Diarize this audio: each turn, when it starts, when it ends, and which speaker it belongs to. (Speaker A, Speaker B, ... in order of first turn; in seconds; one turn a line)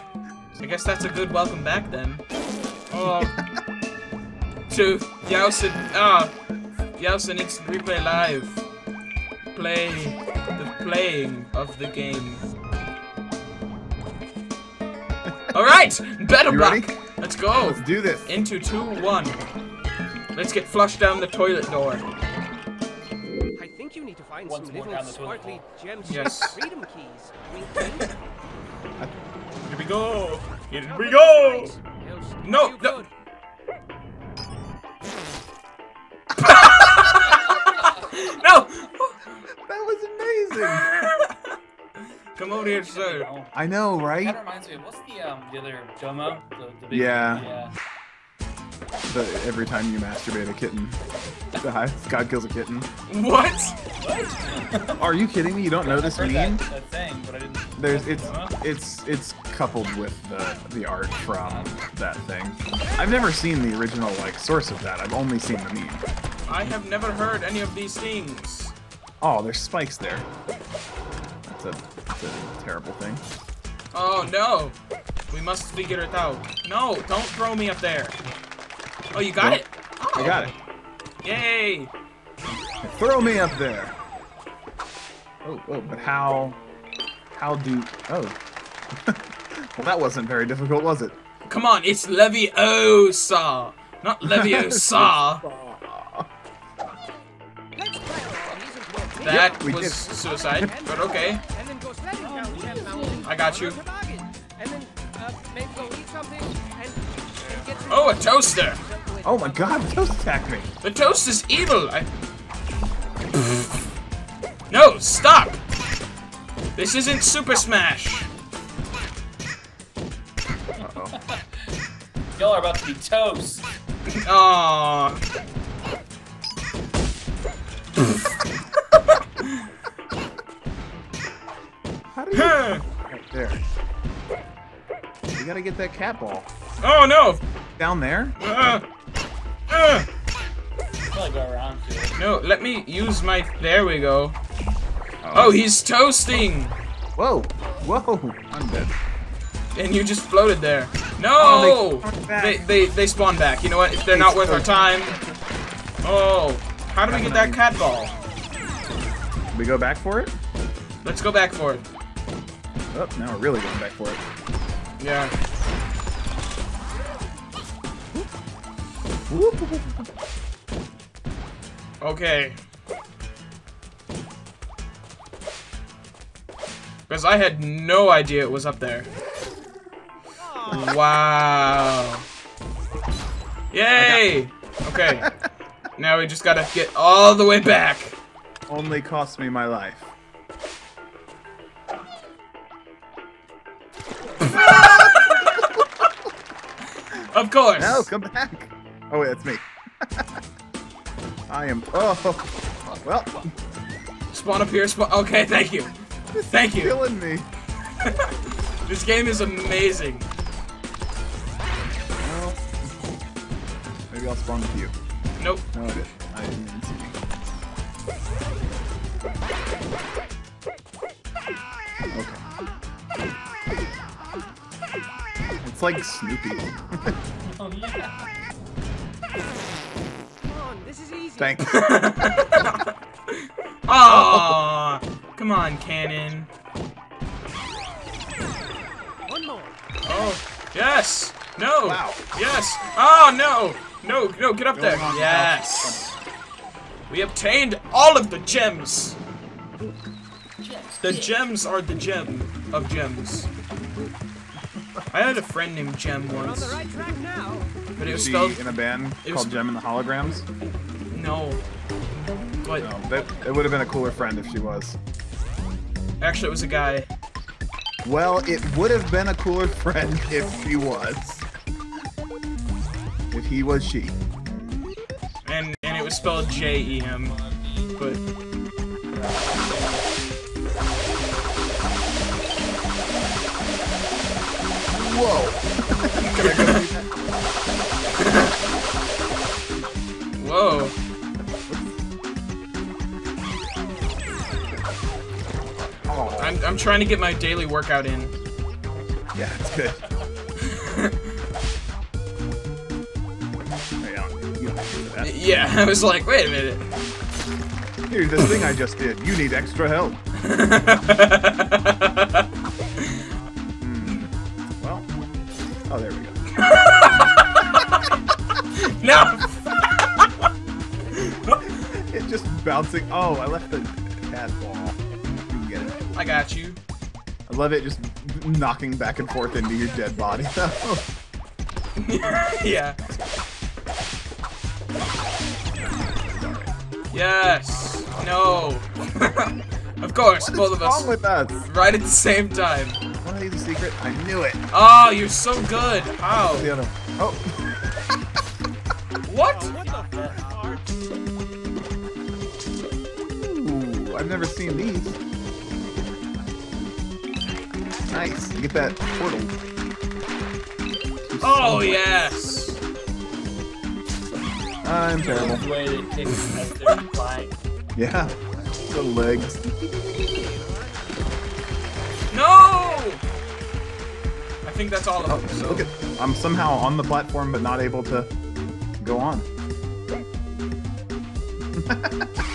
Speaker A: 0.6-2.2
Speaker A: 2.9-3.3
Speaker B: 3.0-3.4
Speaker A: 4.7-6.3
Speaker A: 7.0-8.6
Speaker A: 9.5-12.4
Speaker A: 15.5-19.4
Speaker B: 16.4-17.0
Speaker B: 17.5-18.3
Speaker A: 20.3-22.0
Speaker C: 23.6-26.0
Speaker D: 24.4-25.7
Speaker A: 26.0-26.7
Speaker C: 26.7-27.4
Speaker A: 27.8-28.1
Speaker A: 29.7-31.8
Speaker A: 32.4-33.1
Speaker A: 36.4-39.4
Speaker D: 37.6-38.0
Speaker B: 39.6-40.9
Speaker A: 40.6-41.6
Speaker A: 42.3-43.3
Speaker D: 42.8-43.5
Speaker B: 43.5-44.4
Speaker D: 44.2-47.7
Speaker B: 46.9-47.5
Speaker B: 49.1-51.0
Speaker B: 51.6-52.9
Speaker A: 53.1-53.8
Speaker D: 54.0-55.1
Speaker B: 55.0-56.6
Speaker D: 55.8-58.5
Speaker B: 57.8-66.0
Speaker A: 66.5-68.7
Speaker B: 69.2-70.3
Speaker B: 71.5-73.2
Speaker A: 73.9-74.8
Speaker A: 75.3-78.2
Speaker A: 79.1-80.4
Speaker B: 79.4-79.6
Speaker B: 80.1-80.5
Speaker A: 81.2-81.9
Speaker B: 82.8-83.9
Speaker B: 85.4-86.6
Speaker B: 87.3-88.4
Speaker B: 88.9-91.2
Speaker A: 91.5-95.4
Speaker B: 94.2-96.3
Speaker C: 98.0-99.1
Speaker A: 99.2-101.4
Speaker B: 99.2-100.7
Speaker D: 102.3-103.2
Speaker A: 103.2-103.8
Speaker C: 105.4-106.5
Speaker A: 107.9-108.8
Speaker B: 109.2-110.7
Speaker A: 110.8-112.1
Speaker A: 114.7-115.6
Speaker A: 116.8-118.3
Speaker B: 120.8-121.2
Speaker D: 121.0-121.5
Speaker D: 122.3-123.6
Speaker A: 124.1-125.2
Speaker B: 132.1-133.6
Speaker A: 132.3-132.8
Speaker B: 135.3-136.5
Speaker A: 136.8-137.4
Speaker B: 137.8-138.4
Speaker A: 138.4-138.8
Speaker A: 139.7-140.1
Speaker D: 141.1-142.2
Speaker A: 142.2-144.4
Speaker B: 145.2-145.6
Speaker A: 145.3-146.8
Speaker B: 147.2-148.9
Speaker A: 149.7-155.2
Speaker B: 151.3-152.6
Speaker B: 154.1-154.7
Speaker A: 156.0-158.1
Speaker B: 157.1-157.6
Speaker B: 159.5-160.3
Speaker A: 161.0-161.8
Speaker B: 162.9-164.2
Speaker A: 165.0-165.3
Speaker B: 169.3-170.1
Speaker A: 172.0-172.6
Speaker A: 177.1-179.1
Speaker A: 180.5-182.2
Speaker A: 183.7-185.3
Speaker B: 183.9-184.3
Speaker A: 186.0-188.1
Speaker B: 188.7-190.1
Speaker B: 194.4-195.7
Speaker A: 197.3-198.1
Speaker B: 197.8-199.6
Speaker B: 201.5-203.4
Speaker A: 204.3-205.9
Speaker B: 206.3-207.5
Speaker A: 206.5-207.0
Speaker A: 208.0-208.3
Speaker A: 208.8-210.3
Speaker B: 212.2-212.7
Speaker B: 214.1-214.9
Speaker A: 215.4-215.7
Speaker B: 215.7-217.2
Speaker B: 222.1-222.4
Speaker B: 225.6-227.1
Speaker D: 227.4-228.2
Speaker C: 230.8-231.1
Speaker B: 231.4-231.7
Speaker A: 231.7-236.5
Speaker B: 234.0-234.6
Speaker A: 240.0-246.2
Speaker B: 241.8-242.2
Speaker B: 244.7-246.1
Speaker A: 247.1-249.2
Speaker D: 250.6-251.3
Speaker A: 251.0-253.5
Speaker A: 255.1-256.9
Speaker C: 256.9-257.6
Speaker A: 257.9-258.7
Speaker B: 258.0-260.5
Speaker A: 259.2-259.6
Speaker A: 261.1-261.6
Speaker A: 262.6-262.9
Speaker B: 262.8-265.0
Speaker A: 266.2-267.1
Speaker B: 268.0-271.4
Speaker B: 273.3-274.2
Speaker A: 275.4-277.4
Speaker D: 276.2-277.9
Speaker A: 277.9-278.2
Speaker D: 279.1-280.1
Speaker B: 284.9-287.1
Speaker A: 286.2-286.8
Speaker A: 288.2-288.5
Speaker A: 290.3-290.9
Speaker B: 296.0-296.6
Speaker A: 296.4-298.3
Speaker B: 299.3-300.0
Speaker A: 300.7-301.1
Speaker B: 304.0-305.3
Speaker A: 305.2-306.9
Speaker B: 308.1-310.2
Speaker A: 310.4-312.4
Speaker B: 313.8-314.3
Speaker B: 314.8-315.1
Speaker B: 315.9-316.4
Speaker A: 316.6-318.2
Speaker A: 318.7-320.3
Speaker A: 321.1-321.6
Speaker B: 321.6-326.1
Speaker A: 326.1-326.8
Speaker B: 327.5-331.0
Speaker A: 332.0-333.0
Speaker B: 333.0-333.3
Speaker B: 335.8-336.7
Speaker A: 337.1-341.1
Speaker B: 340.4-341.7
Speaker A: 341.6-343.0
Speaker B: 343.2-344.6
Speaker A: 344.7-346.7
Speaker B: 346.4-347.4
Speaker A: 349.2-349.7
Speaker D: 349.8-350.5
Speaker B: 353.3-355.2
Speaker B: 358.1-359.5
Speaker B: 361.3-362.3
Speaker A: 361.4-362.8
Speaker B: 364.8-365.6
Speaker D: 365.2-367.6
Speaker B: 367.9-370.2
Speaker A: 372.3-373.2
Speaker A: 374.6-375.9
Speaker B: 375.2-378.3
Speaker B: 379.0-379.5
Speaker B: 381.8-382.3